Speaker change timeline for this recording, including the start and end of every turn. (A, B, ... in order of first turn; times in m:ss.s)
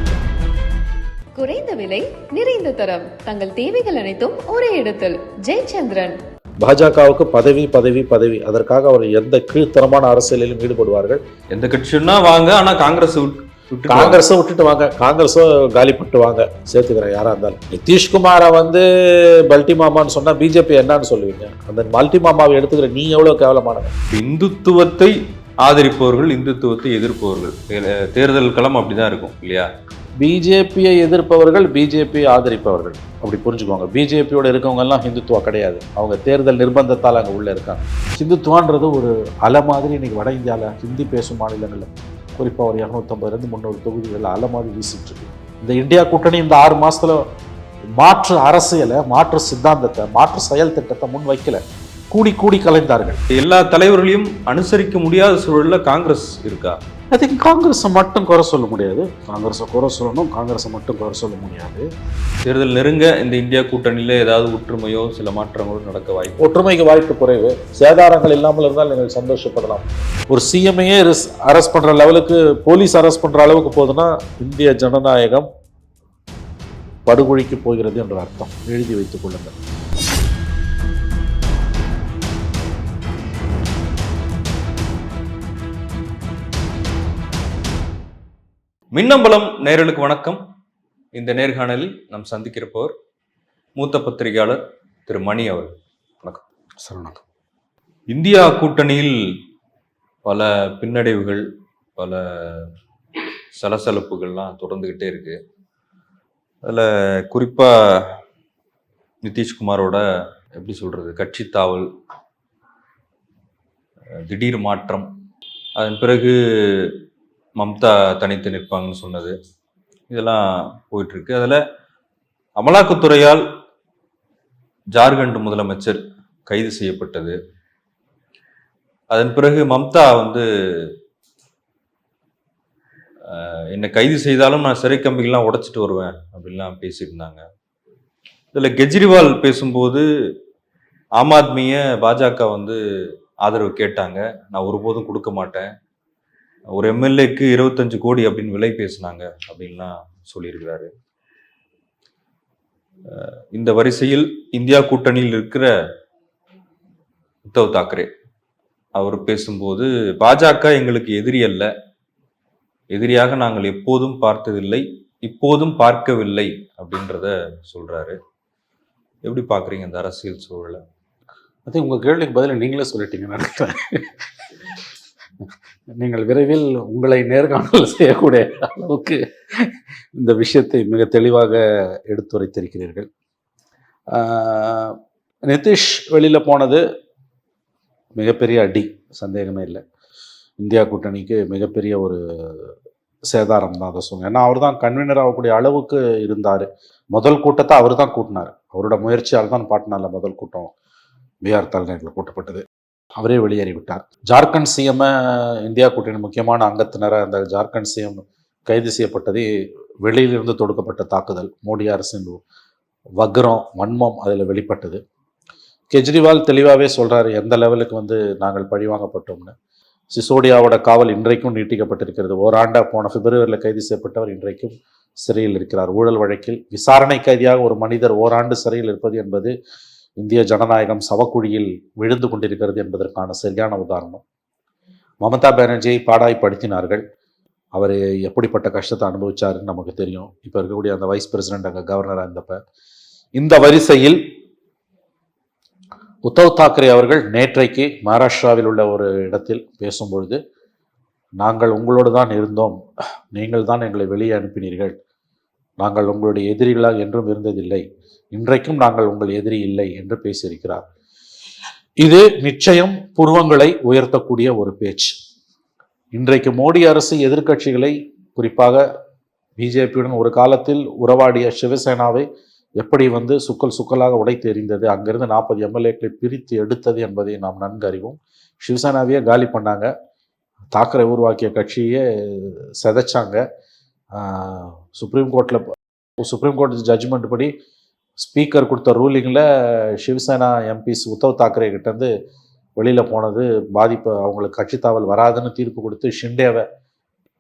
0:01.4-0:06.2 A
0:06.6-0:11.2 B
0:11.5-0:14.2 C
0:13.9-0:23.9 B
0:24.1-0:29.7 C
0:30.2-0:47.2 B
0:48.0-0:53.2 B
0:53.3-0:56.8 C
0:57.1-1:01.9 B
1:02.4-1:06.4 C
1:06.4-1:15.5 B
1:17.0-1:19.5 B
1:28.9-1:30.4 C
1:31.1-1:32.9 C
1:33.8-1:36.4 C
1:36.8-1:37.2 B
1:38.1-1:39.2 C
1:40.2-1:41.4 C
1:42.0-1:42.7 C
1:43.6-1:45.4 C
1:46.6-1:48.2 C
1:49.2-1:51.9 C
1:54.2-1:55.1 C
1:55.8-1:57.0 C
1:57.6-1:59.3 C
2:00.1-2:01.6 C
2:02.6-2:03.4 C
2:04.9-2:07.4 C
2:09.1-2:10.9 C
2:13.2-2:17.4 C
2:18.5-2:20.0 C
2:21.2-2:22.8 C
2:23.4-2:25.7 C
2:26.7-2:30.9 C
2:33.1-2:35.7 C
2:37.4-2:38.1 C
2:38.9-2:41.7 C
2:42.9-2:48.2 C
2:49.2-2:50.8 C
2:51.7-2:54.1 B
2:55.9-3:03.1 B
3:04.1-3:06.8 B
3:08.2-3:09.8 B
3:10.6-3:12.7 B
3:13.3-3:20.7 B
3:21.4-3:22.6 B
3:23.2-3:29.5 B
3:30.0-3:32.4 B
3:33.2-3:35.0 B
3:35.9-3:39.5 B
3:40.1-3:49.5 B
3:50.2-3:54.2 B
3:55.2-3:57.0 B
3:57.7-4:02.6 B
4:03.4-4:04.2 B
4:06.2-4:10.4 B
4:11.4-4:12.8 B
4:13.3-4:15.0 B
4:15.8-4:20.8 B
4:22.0-4:25.1 B
4:26.1-4:28.8 B
4:29.6-4:32.2 B
4:32.8-4:39.9 B
4:40.7-4:43.4 B
4:44.1-4:45.6 B
4:46.2-4:47.5 B
4:48.2-4:52.1 B
4:52.8-4:56.6 B